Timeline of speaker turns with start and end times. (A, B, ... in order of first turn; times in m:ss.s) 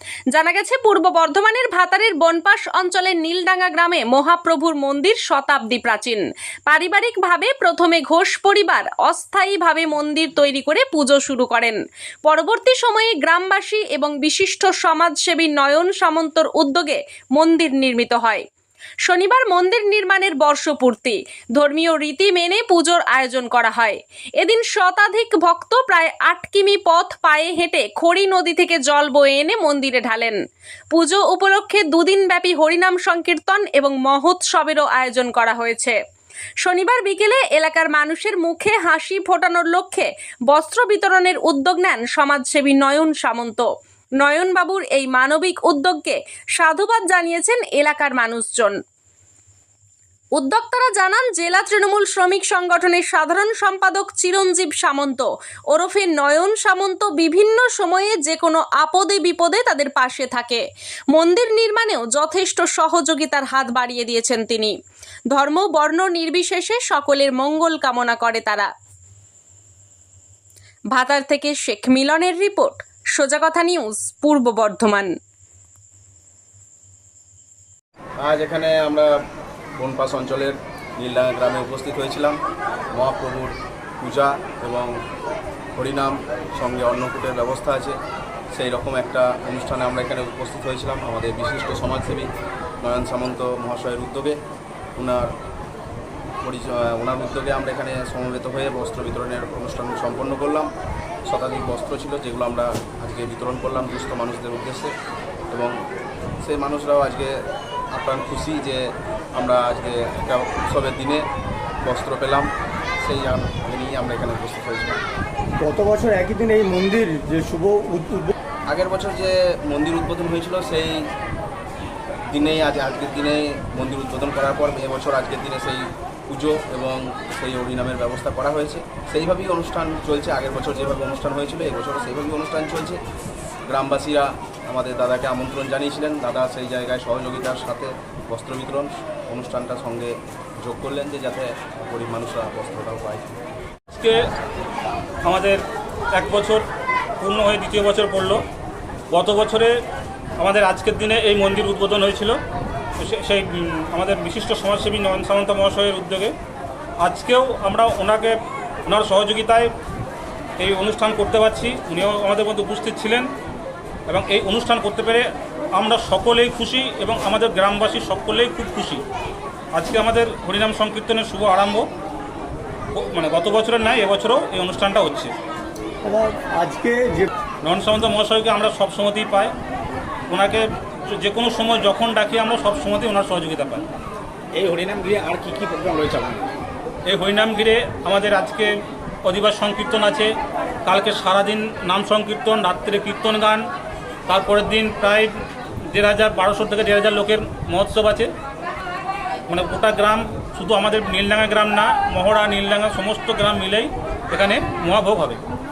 0:00.3-0:18.4 A
0:19.0-0:30.4 A
0:30.9-0:36.0 A
0:36.6-0:43.6 A
0:44.2-0:48.7 A
0:50.3-1:00.6 A
1:01.1-1:04.7 A
1:05.3-1:08.7 A
1:10.9-1:15.1 A
1:18.2-1:19.1 B
1:19.8-1:22.4 B
1:22.9-1:24.9 B
1:25.8-1:28.0 B
1:28.5-1:32.3 B
1:32.8-1:34.4 B
1:35.0-1:35.3 B
1:36.4-1:40.7 B
1:41.2-1:44.9 B
1:46.4-1:47.4 B
1:47.9-1:48.8 B
1:49.4-1:51.2 B
1:51.8-1:52.5 B
1:53.0-1:55.0 B
1:55.6-1:58.3 C
1:58.7-2:01.0 B
2:02.3-2:13.0 B
2:13.7-2:23.3 B
2:23.9-2:24.2 D
2:25.2-2:26.6 D
2:27.2-2:28.4 D
2:29.1-2:29.7 D
2:30.4-2:32.4 D
2:33.0-2:36.3 D
2:37.0-2:39.7 D
2:40.6-2:43.3 D
2:44.1-2:49.0 D
2:49.7-2:51.9 D
2:52.9-2:55.3 D
2:56.0-2:57.3 C
2:57.6-2:59.5 D
3:00.3-3:03.9 D
3:04.5-3:06.5 E
3:07.1-3:08.7 D
3:09.2-3:10.3 D
3:10.8-3:13.7 D
3:14.3-3:15.4 D
3:15.9-3:18.3 D
3:19.5-3:25.4 D